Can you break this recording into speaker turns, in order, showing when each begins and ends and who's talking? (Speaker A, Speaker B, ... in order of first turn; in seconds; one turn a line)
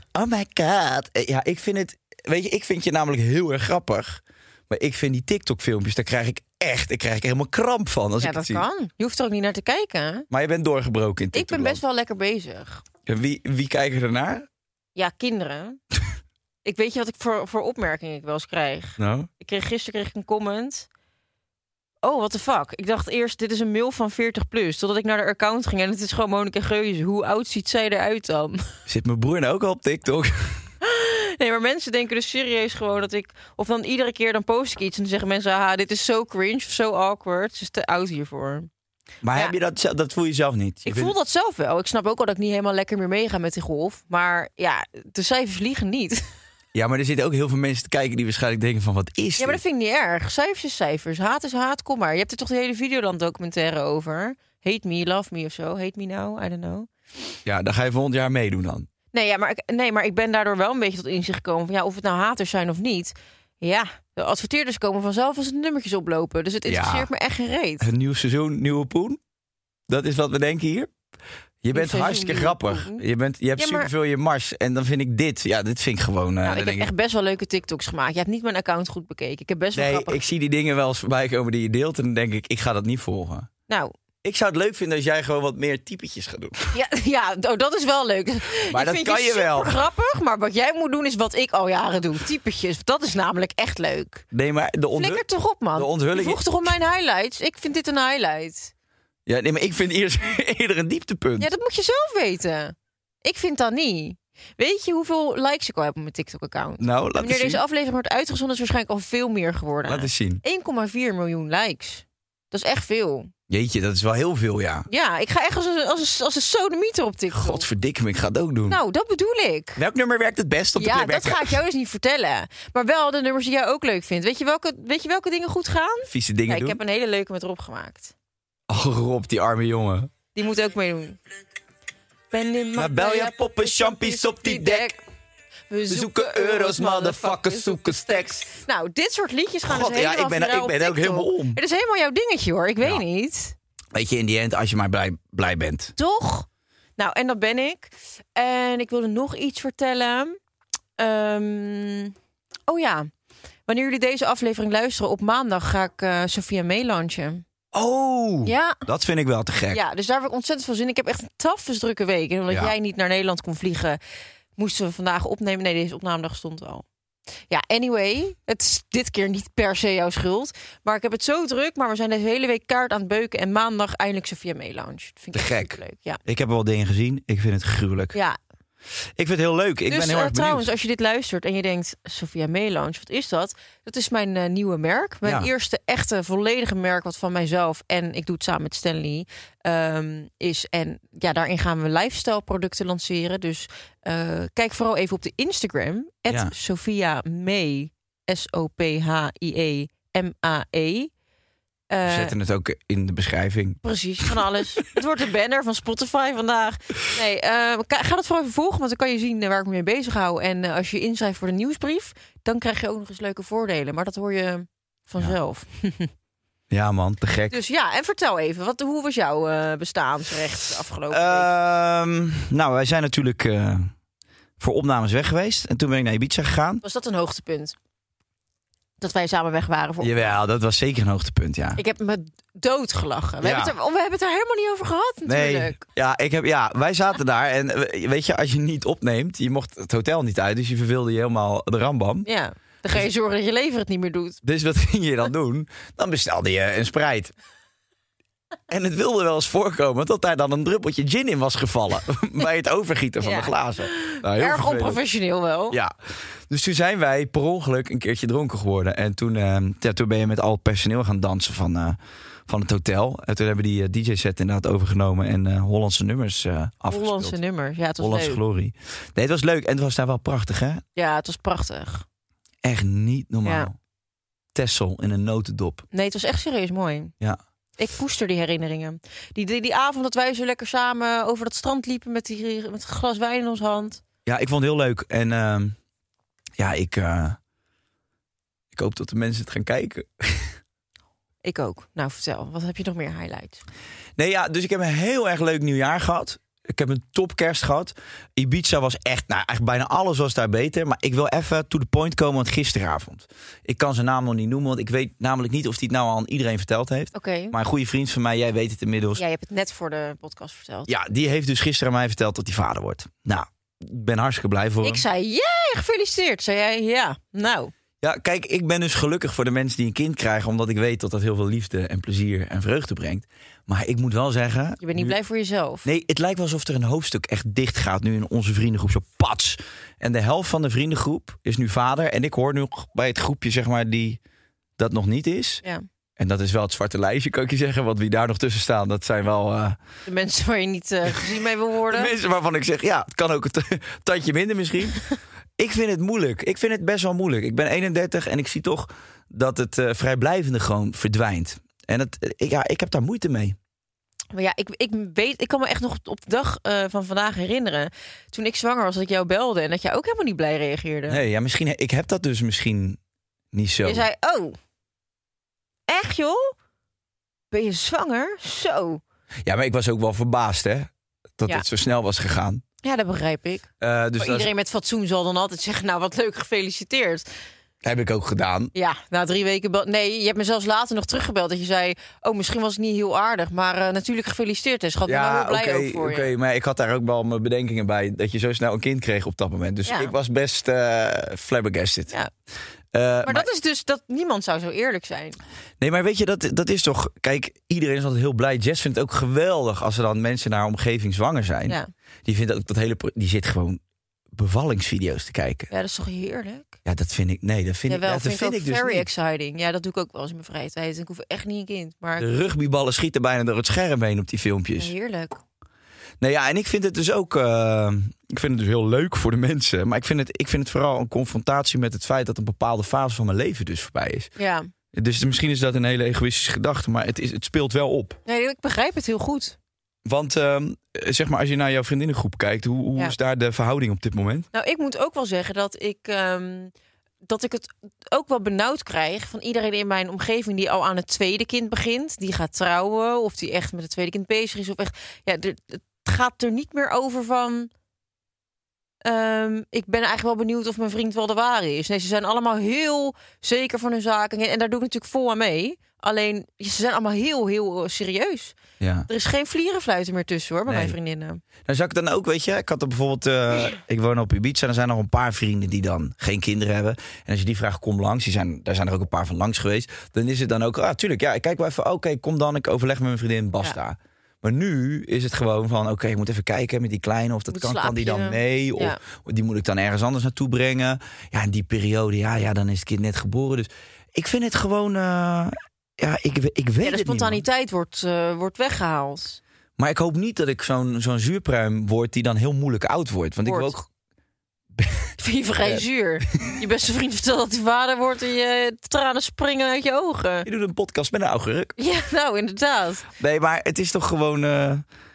Speaker A: 0.1-8.7
Speaker B: 8.2-10.3
Speaker A: 10.3-11.8
Speaker B: 11.3-12.8
Speaker A: 13.1-14.5
Speaker B: 14.9-15.8
Speaker B: 16.6-20.9
Speaker A: 19.0-19.3
Speaker B: 22.0-28.8
Speaker A: 28.9-30.6
Speaker B: 30.8-38.7
Speaker A: 39.2-41.1
Speaker B: 40.9-46.2
Speaker A: 46.7-49.6
Speaker B: 49.4-56.9
Speaker A: 57.5-58.9
Speaker B: 59.1-67.9
Speaker A: 66.7-67.1
Speaker A: 67.8-69.2
Speaker A: 69.9-70.9
Speaker A: 71.6-76.9
Speaker B: 71.7-73.0
Speaker B: 73.6-73.9
Speaker B: 76.4-80.2
Speaker A: 79.8-83.5
Speaker A: 84.2-86.8
Speaker B: 86.7-94.3
Speaker A: 88.7-89.8
Speaker A: 94.3-95.2
Speaker B: 95.0-98.7
Speaker A: 95.8-96.7
Speaker A: 99.3-101.5
Speaker B: 101.4-113.3
Speaker A: 106.8-107.6
Speaker A: 109.9-110.4
Speaker A: 113.5-114.9
Speaker B: 114.9-117.7
Speaker A: 117.3-118.8
Speaker B: 118.7-119.8
Speaker A: 119.8-121.6
Speaker B: 120.8-128.1
Speaker A: 126.1-126.8
Speaker A: 128.7-130.1
Speaker B: 130.3-131.2
Speaker B: 132.3-135.0
Speaker A: 132.8-135.0
Speaker B: 135.7-143.6
Speaker A: 135.9-138.5
Speaker A: 139.7-141.6
Speaker A: 143.9-145.9
Speaker B: 146.0-146.5
Speaker B: 147.0-150.4
Speaker B: 151.0-152.1
Speaker B: 152.7-153.1
Speaker B: 153.7-157.4
Speaker A: 157.7-159.8
Speaker B: 158.4-158.8
Speaker B: 159.7-164.0
Speaker A: 162.5-162.7
Speaker B: 164.6-166.8
Speaker B: 167.5-176.2
Speaker A: 175.3-178.2
Speaker B: 178.1-178.4
Speaker A: 179.2-180.7
Speaker B: 179.9-201.1
Speaker A: 185.2-185.5
Speaker B: 201.9-202.3
Speaker A: 202.1-204.4
Speaker B: 203.8-216.1
Speaker A: 216.7-217.6
Speaker B: 217.5-221.5
Speaker A: 221.1-223.9
Speaker A: 224.6-226.8
Speaker B: 226.8-227.8
Speaker B: 229.0-230.3
Speaker A: 230.0-231.8
Speaker B: 231.8-235.9
Speaker A: 233.4-233.7
Speaker A: 235.3-242.3
Speaker B: 242.2-244.4
Speaker A: 244.4-247.3
Speaker A: 248.7-255.0
Speaker B: 253.2-255.8
Speaker A: 256.5-267.4
Speaker B: 266.9-268.4
Speaker A: 268.0-270.8
Speaker B: 271.0-272.1
Speaker A: 272.6-273.8
Speaker B: 273.4-273.7
Speaker A: 274.6-275.9
Speaker B: 275.9-277.1
Speaker B: 277.8-284.0
Speaker A: 284.3-285.8
Speaker A: 286.6-287.4
Speaker A: 288.7-290.6
Speaker B: 291.4-293.6
Speaker A: 294.2-309.2
Speaker B: 307.1-307.6
Speaker B: 309.2-310.9
Speaker A: 310.9-315.0
Speaker B: 314.8-317.7
Speaker A: 318.0-325.2
Speaker B: 324.8-325.9
Speaker A: 325.8-334.2
Speaker A: 334.8-335.6
Speaker A: 336.2-339.8
Speaker B: 340.1-342.1
Speaker A: 341.9-345.0
Speaker A: 345.6-353.6
Speaker B: 354.3-361.2
Speaker A: 361.1-363.0
Speaker A: 363.5-364.1
Speaker B: 363.9-364.6
Speaker B: 365.9-366.5
Speaker B: 367.5-369.0
Speaker A: 369.4-372.6
Speaker B: 372.8-377.3
Speaker A: 373.8-374.5
Speaker A: 377.8-378.7
Speaker B: 378.8-386.3
Speaker A: 385.1-392.1
Speaker B: 389.9-390.1
Speaker A: 392.9-393.5
Speaker B: 393.2-395.4
Speaker A: 395.8-403.8
Speaker A: 404.3-405.7
Speaker B: 405.7-406.8
Speaker A: 406.9-409.1
Speaker B: 407.9-412.3
Speaker A: 412.2-414.9
Speaker B: 414.8-415.4
Speaker A: 416.2-424.3
Speaker B: 424.4-424.7
Speaker A: 424.9-428.2
Speaker B: 428.3-429.6
Speaker A: 430.1-434.5
Speaker B: 434.5-436.7
Speaker B: 437.2-447.7
Speaker B: 449.0-458.6
Speaker A: 458.8-459.1
Speaker B: 459.1-461.4
Speaker A: 460.7-461.0
Speaker A: 461.6-487.4
Speaker B: 477.5-479.0
Speaker B: 486.8-489.4
Speaker A: 489.8-493.8
Speaker B: 493.4-493.8
Speaker A: 494.8-495.1
Speaker B: 495.2-500.5
Speaker A: 500.4-501.8
Speaker B: 501.8-503.1
Speaker A: 503.2-504.9